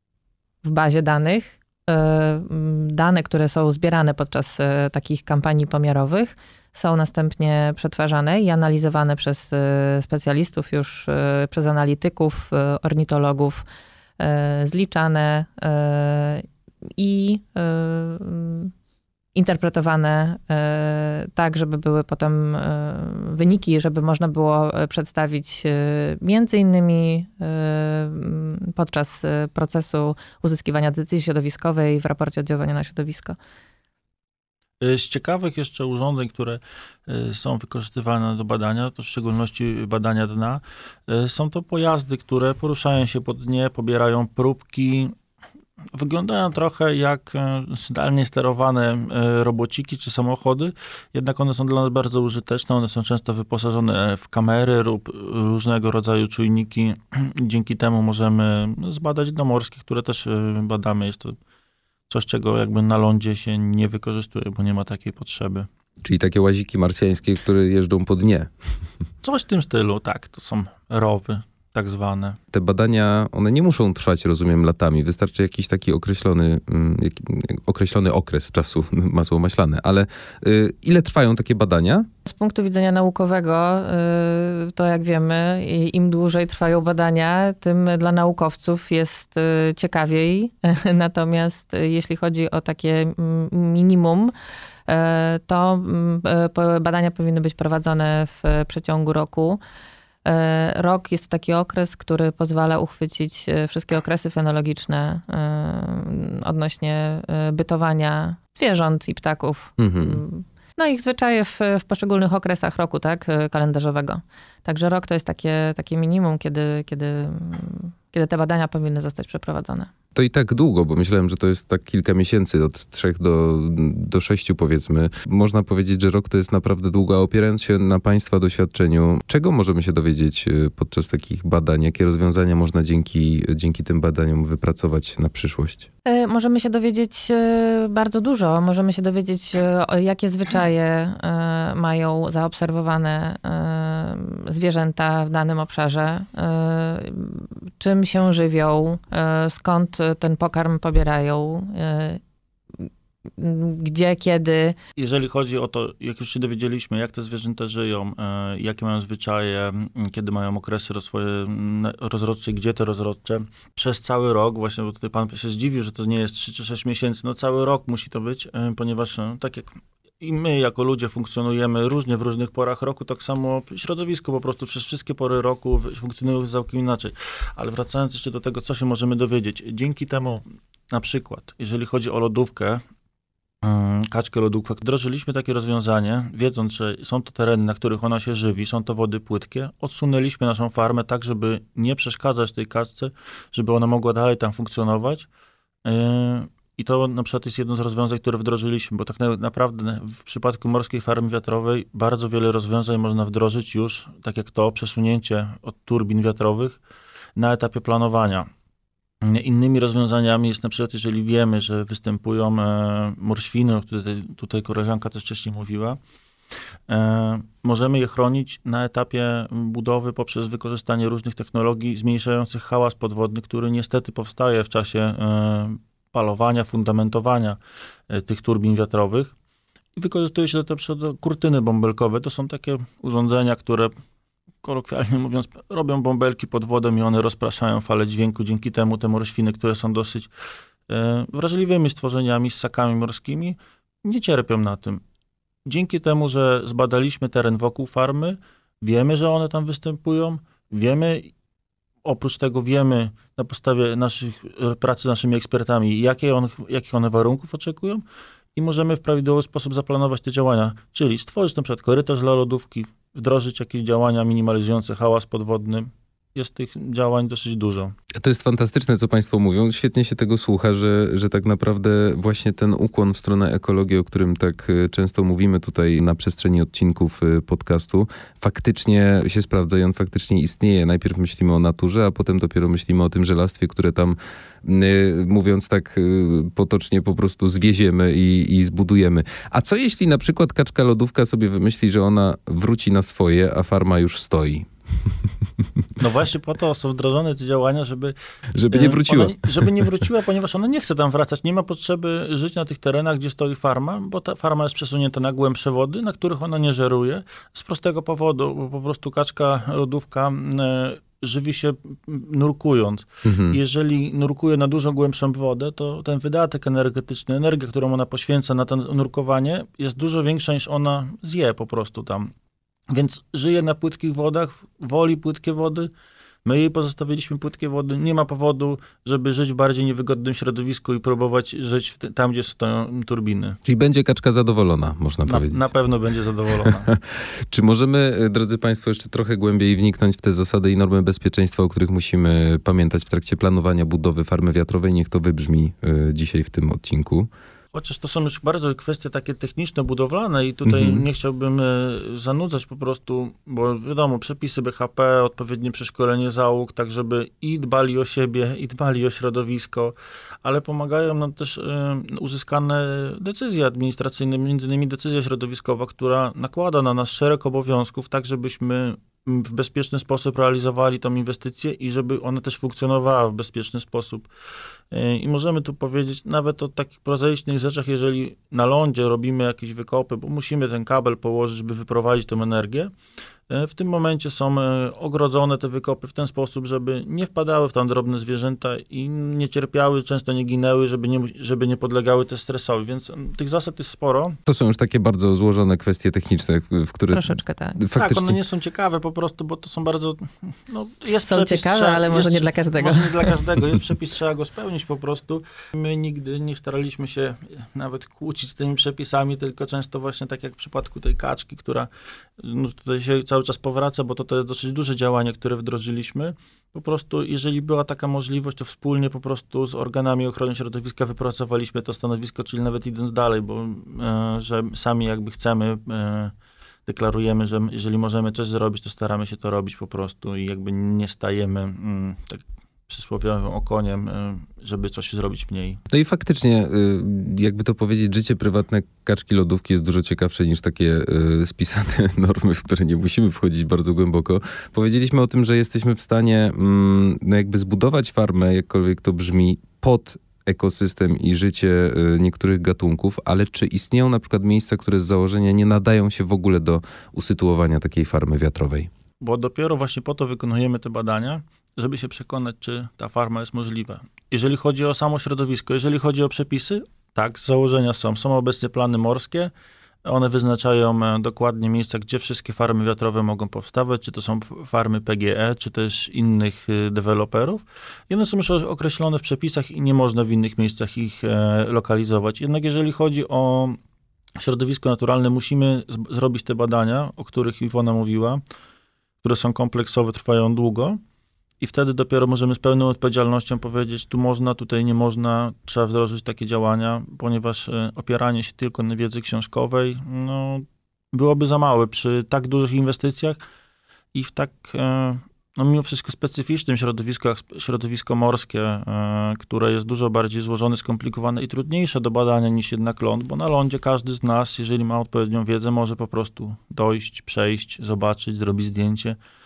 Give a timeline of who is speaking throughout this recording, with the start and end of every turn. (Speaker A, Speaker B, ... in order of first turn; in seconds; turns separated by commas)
Speaker A: 0.6-13.7, Speaker A: 14.2-18.7, Speaker A: 19.3-33.4, Speaker B: 34.8-45.1, Speaker B: 45.9-61.4, Speaker B: 62.1-65.7, Speaker C: 66.0-68.5, Speaker B: 69.2-72.4, Speaker C: 72.5-82.1, Speaker A: 82.2-94.3, Speaker A: 94.9-99.6, Speaker A: 100.2-119.9, Speaker C: 109.8-110.2, Speaker C: 120.1-135.9, Speaker A: 136.0-152.2, Speaker A: 153.4-154.8, Speaker B: 155.0-182.8, Speaker B: 183.6-195.3, Speaker B: 195.9-206.8, Speaker B: 207.4-208.5, Speaker B: 209.2-216.0, Speaker B: 216.9-227.6, Speaker B: 228.1-229.3, Speaker B: 230.0-233.9, Speaker B: 234.6-240.3, Speaker B: 240.9-245.0, Speaker B: 245.7-251.3, Speaker B: 252.0-258.0, Speaker B: 258.6-267.9, Speaker C: 268.2-294.7, Speaker B: 296.0-298.1, Speaker C: 298.5-299.9, Speaker B: 298.7-322.3, Speaker C: 313.2-313.6, Speaker B: 322.9-325.9, Speaker B: 326.4-333.6, Speaker C: 333.6-335.6, Speaker B: 335.2-336.9, Speaker C: 337.5-347.3, Speaker B: 347.7-374.3, Speaker C: 350.6-351.0, Speaker B: 374.9-382.9, Speaker B: 383.5-394.4, Speaker C: 394.5-398.4, Speaker A: 397.1-397.8, Speaker B: 397.9-426.3, Speaker A: 401.2-403.4, Speaker B: 426.9-435.8, Speaker C: 435.9-458.9, Speaker B: 459.2-469.5, Speaker B: 470.0-483.8, Speaker B: 484.4-488.4, Speaker B: 489.2-491.0, Speaker B: 491.6-503.4, Speaker B: 504.1-519.2